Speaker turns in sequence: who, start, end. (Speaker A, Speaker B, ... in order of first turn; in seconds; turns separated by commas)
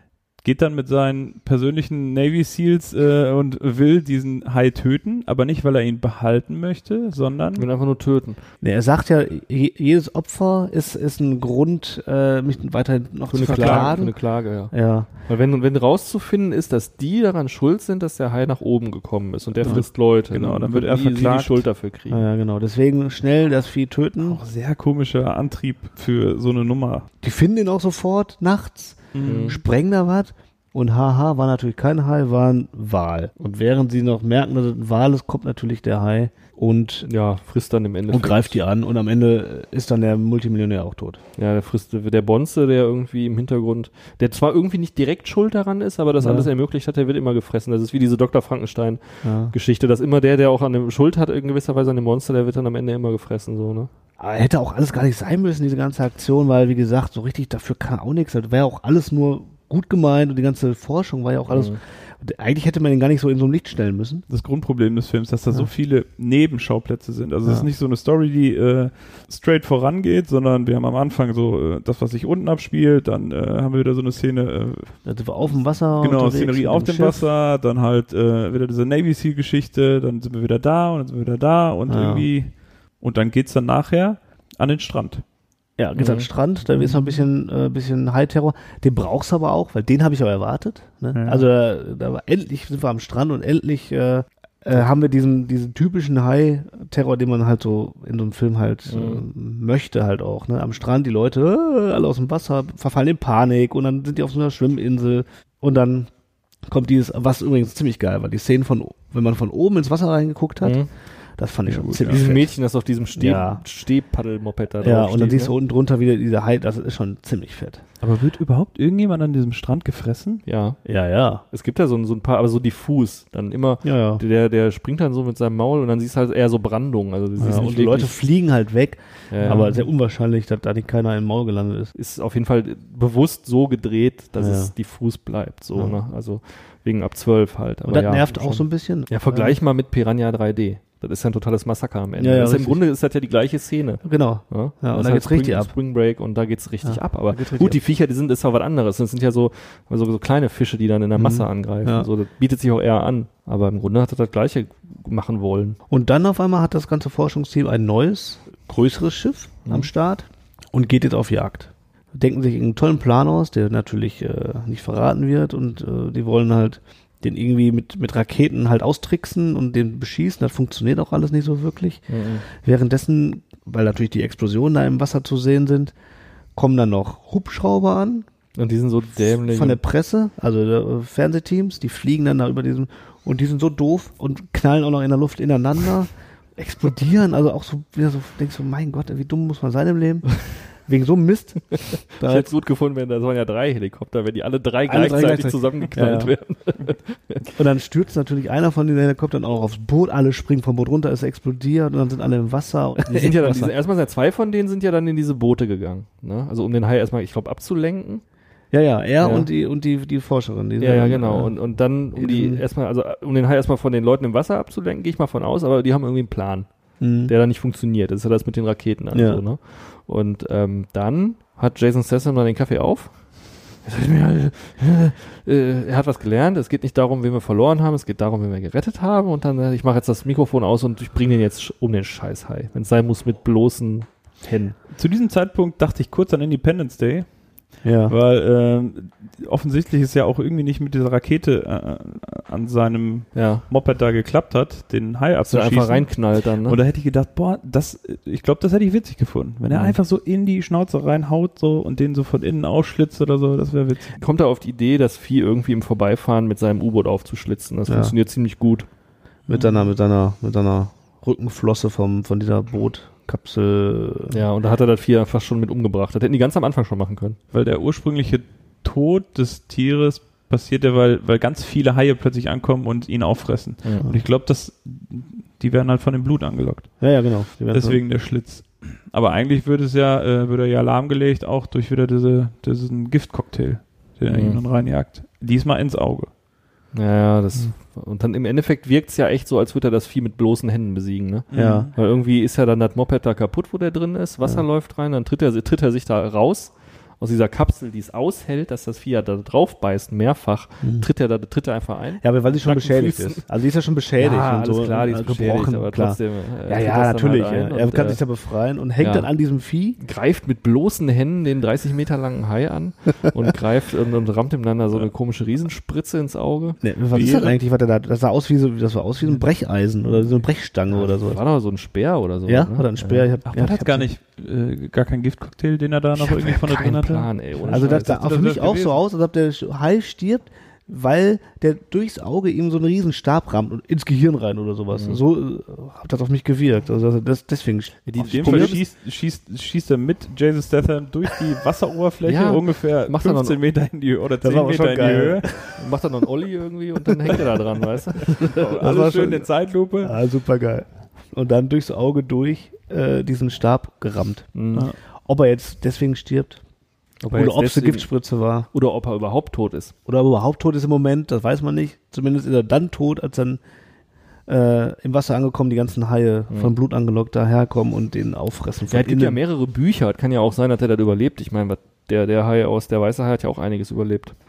Speaker A: 0.4-7.7, Speaker B: 7.6-8.4, Speaker C: 8.6-14.2, Speaker B: 13.3-22.2, Speaker A: 13.4-14.0, Speaker C: 14.7-15.1, Speaker A: 19.6-21.7, Speaker C: 22.1-24.4, Speaker A: 24.2-27.1, Speaker C: 27.2-37.1, Speaker A: 29.1-29.6, Speaker B: 29.2-29.6, Speaker B: 37.0-38.6, Speaker C: 38.1-41.2, Speaker B: 41.4-53.9, Speaker C: 46.2-46.5, Speaker C: 49.2-49.5, Speaker C: 54.2-64.2, Speaker B: 61.5-61.8, Speaker A: 64.3-75.0, Speaker C: 75.1-77.2, Speaker A: 76.0-85.2, Speaker C: 81.9-82.3, Speaker C: 85.8-106.1, Speaker B: 86.0-86.3, Speaker A: 86.8-87.1, Speaker A: 91.1-91.5, Speaker B: 98.9-99.2, Speaker C: 106.7-110.8, Speaker B: 110.6-110.9, Speaker C: 111.4-112.5, Speaker A: 111.7-112.2, Speaker B: 112.0-115.5, Speaker C: 113.2-113.6, Speaker C: 114.8-117.8, Speaker A: 118.0-120.4, Speaker B: 120.5-120.8, Speaker C: 120.8-121.4, Speaker B: 121.5-128.2, Speaker C: 123.8-124.2, Speaker C: 127.4-131.9, Speaker B: 129.3-129.8, Speaker A: 129.4-129.8, Speaker B: 132.0-155.8, Speaker C: 134.4-134.7, Speaker C: 137.9-139.6, Speaker C: 142.2-142.8, Speaker C: 144.0-145.7, Speaker C: 146.8-147.8, Speaker C: 151.2-152.1, Speaker C: 155.9-175.9, Speaker B: 172.1-172.4, Speaker C: 176.6-178.3, Speaker B: 178.6-179.8, Speaker C: 179.2-192.5, Speaker B: 192.2-197.4, Speaker C: 194.9-196.4, Speaker C: 197.5-203.7, Speaker B: 203.1-208.2, Speaker C: 208.7-211.6, Speaker B: 209.2-209.5, Speaker B: 210.8-216.7, Speaker C: 212.2-212.6, Speaker C: 217.0-217.3, Speaker B: 217.3-234.8, Speaker C: 219.1-219.4, Speaker A: 234.9-237.3, Speaker C: 237.8-238.2, Speaker A: 238.1-254.2, Speaker B: 243.3-243.7, Speaker B: 245.5-246.8, Speaker B: 249.7-250.0, Speaker B: 254.2-258.9, Speaker C: 257.9-258.1, Speaker A: 259.5-259.7, Speaker C: 259.5-264.4, Speaker B: 264.3-267.4, Speaker A: 267.5-277.1, Speaker B: 273.8-274.1, Speaker C: 277.0-278.0, Speaker A: 277.7-286.3, Speaker B: 284.3-284.6, Speaker B: 286.9-303.5, Speaker A: 291.5-291.9, Speaker C: 291.5-291.9, Speaker C: 300.8-301.1, Speaker C: 302.2-310.0, Speaker B: 304.2-308.2, Speaker B: 309.0-309.3, Speaker B: 310.0-316.8, Speaker C: 316.8-321.4, Speaker A: 317.1-317.6, Speaker B: 320.9-323.3, Speaker C: 322.5-324.1, Speaker A: 323.5-329.0, Speaker B: 326.2-328.2, Speaker C: 327.7-338.8, Speaker B: 334.9-335.2, Speaker B: 338.1-338.8, Speaker A: 338.2-345.8, Speaker B: 342.2-343.6, Speaker C: 344.4-345.7, Speaker B: 345.8-348.6, Speaker A: 348.3-350.2, Speaker C: 348.4-349.5, Speaker C: 350.0-354.5, Speaker B: 354.6-354.9, Speaker C: 355.2-356.6, Speaker B: 357.2-358.1, Speaker C: 357.3-358.7, Speaker B: 358.7-359.9, Speaker C: 360.1-363.6, Speaker C: 364.5-369.4, Speaker B: 368.9-374.4